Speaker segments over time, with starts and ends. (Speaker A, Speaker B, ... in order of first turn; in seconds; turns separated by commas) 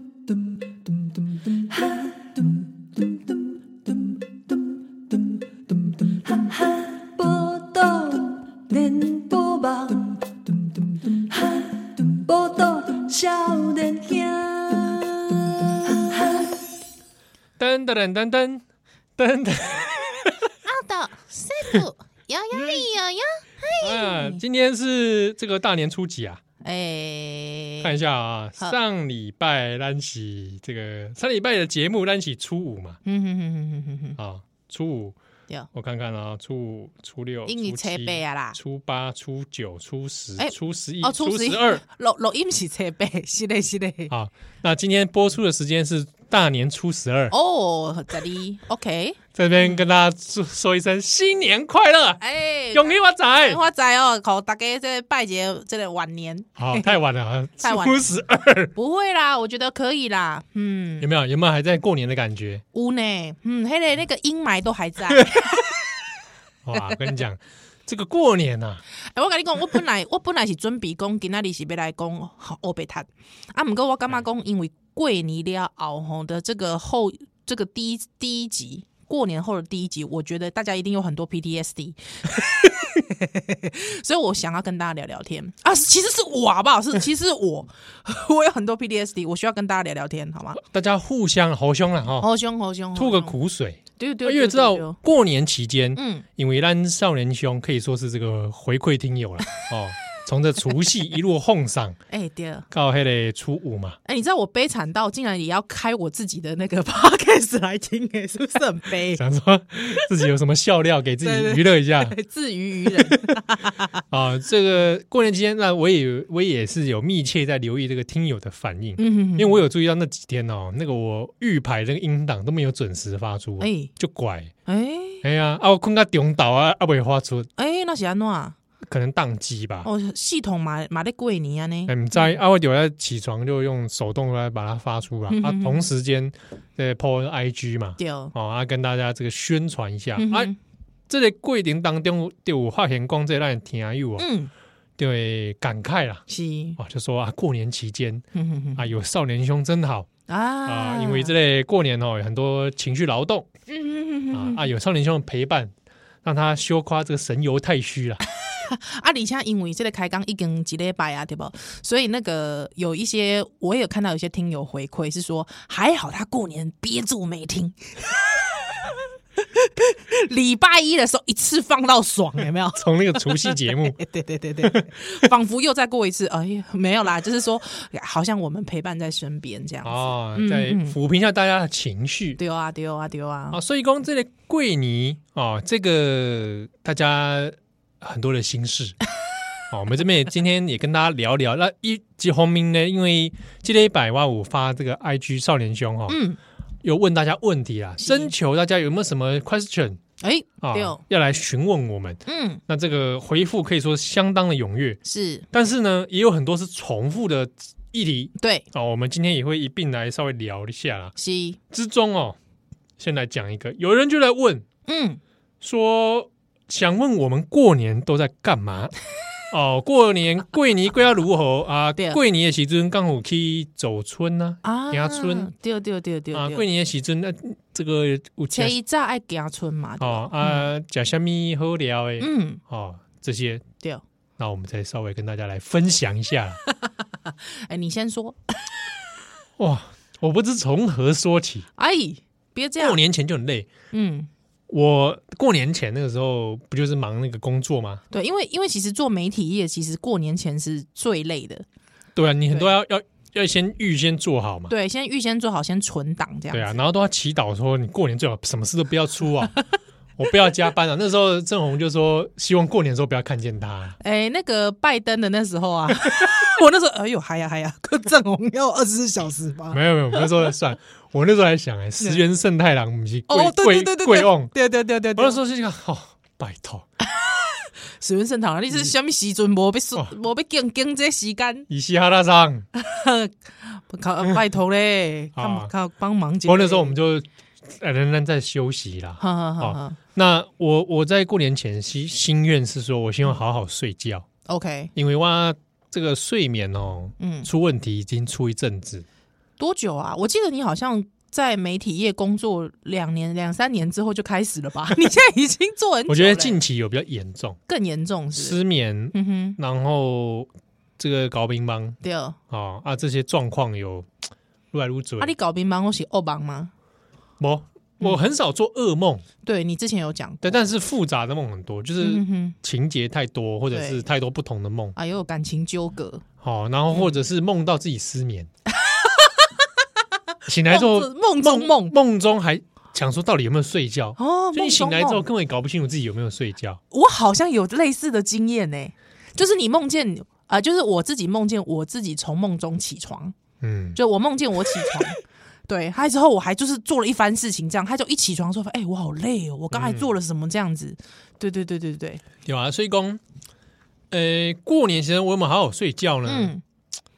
Speaker A: 0.3-16.6, Speaker B: 17.6-18.6, Speaker B: 19.2-20.5, Speaker C: 20.7-24.4, Speaker B: 23.8-26.4, Speaker C: 26.6-27.9, Speaker B: 27.8-33.0, Speaker C: 33.0-34.2, Speaker B: 34.2-35.2, Speaker B: 35.7-41.8, Speaker C: 37.5-38.6, Speaker C: 40.4-44.1, Speaker B: 44.1-47.3, Speaker C: 47.3-49.8, Speaker B: 49.4-52.2, Speaker C: 52.2-56.9, Speaker B: 52.7-53.6, Speaker B: 56.6-58.7, Speaker C: 57.6-58.1, Speaker C: 58.8-61.1, Speaker B: 61.0-62.6, Speaker C: 62.7-65.7, Speaker B: 66.7-68.8, Speaker C: 69.1-90.6, Speaker B: 90.6-92.3, Speaker C: 92.2-93.4, Speaker B: 93.0-102.0, Speaker C: 94.0-95.0, Speaker C: 96.0-96.2, Speaker C: 102.1-102.7, Speaker B: 102.7-104.0, Speaker C: 104.1-109.2, Speaker B: 109.2-112.2, Speaker C: 111.2-113.9, Speaker B: 112.9-113.4, Speaker B: 114.1-124.5, Speaker C: 119.0-119.6, Speaker C: 123.6-123.9, Speaker C: 124.7-125.2, Speaker B: 125.2-127.5, Speaker C: 127.6-128.6, Speaker B: 128.9-129.9, Speaker C: 129.8-132.3, Speaker B: 131.9-140.5, Speaker C: 135.3-135.9, Speaker C: 138.0-138.3, Speaker C: 140.2-140.6, Speaker B: 141.1-144.3, Speaker C: 144.2-144.5, Speaker B: 145.0-146.2, Speaker C: 146.3-146.8, Speaker B: 146.8-148.2, Speaker C: 148.3-148.8, Speaker B: 148.8-150.1, Speaker C: 150.3-151.3, Speaker B: 150.7-153.5, Speaker C: 153.7-154.7, Speaker B: 154.3-155.7, Speaker B: 156.2-158.2, Speaker C: 158.4-181.0, Speaker B: 172.8-174.0, Speaker B: 174.6-175.3, Speaker B: 179.8-182.4, Speaker C: 182.4-183.6, Speaker B: 183.5-189.0, Speaker B: 189.7-196.2, Speaker C: 196.1-196.4, Speaker B: 196.8-200.0, Speaker C: 198.0-198.3, Speaker C: 200.2-201.0, Speaker B: 200.6-205.0, Speaker C: 202.3-202.6, Speaker C: 205.1-205.5, Speaker B: 205.5-211.2, Speaker C: 208.4-208.7, Speaker C: 211.2-211.6, Speaker B: 211.7-212.4, Speaker B: 213.0-214.7, Speaker C: 214.9-215.2, Speaker B: 215.6-218.9, Speaker B: 219.5-225.5, Speaker C: 224.6-226.6, Speaker B: 226.3-228.8, Speaker C: 228.5-230.7, Speaker B: 230.0-233.7, Speaker C: 232.2-232.6, Speaker B: 234.4-236.6, Speaker C: 236.7-238.7, Speaker B: 239.6-241.7, Speaker C: 241.8-243.0, Speaker B: 242.8-243.7, Speaker C: 243.9-244.3, Speaker B: 244.7-248.0, Speaker C: 248.1-251.7, Speaker B: 252.2-254.7, Speaker C: 254.7-256.7, Speaker B: 256.5-259.6, Speaker B: 260.2-264.0, Speaker C: 264.0-270.4, Speaker B: 269.7-274.5, Speaker C: 273.3-275.4, Speaker B: 275.1-276.9, Speaker C: 277.1-281.7, Speaker B: 281.7-282.7, Speaker C: 282.8-286.9, Speaker B: 285.4-285.7, Speaker B: 286.5-294.3, Speaker C: 289.2-290.0, Speaker C: 294.5-294.9, Speaker B: 294.9-299.1, Speaker C: 297.2-297.5, Speaker C: 299.6-306.6, Speaker B: 306.1-307.6, Speaker C: 307.7-308.6, Speaker B: 308.3-312.0, Speaker C: 309.1-309.6, Speaker C: 312.0-312.4, Speaker B: 312.5-315.3, Speaker C: 315.2-316.7, Speaker B: 317.4-319.2, Speaker C: 319.4-320.6, Speaker B: 320.4-325.0, Speaker C: 322.0-322.6, Speaker C: 323.7-324.0, Speaker C: 325.0-326.2, Speaker B: 326.4-328.5, Speaker C: 326.9-327.2, Speaker C: 328.8-329.5, Speaker B: 330.5-336.8, Speaker C: 330.7-331.9, Speaker C: 334.2-335.3, Speaker C: 336.9-343.4, Speaker B: 343.6-344.0, Speaker C: 344.0-352.2, Speaker B: 349.7-350.1, Speaker B: 352.4-353.2, Speaker B: 354.1-356.5, Speaker C: 356.2-356.6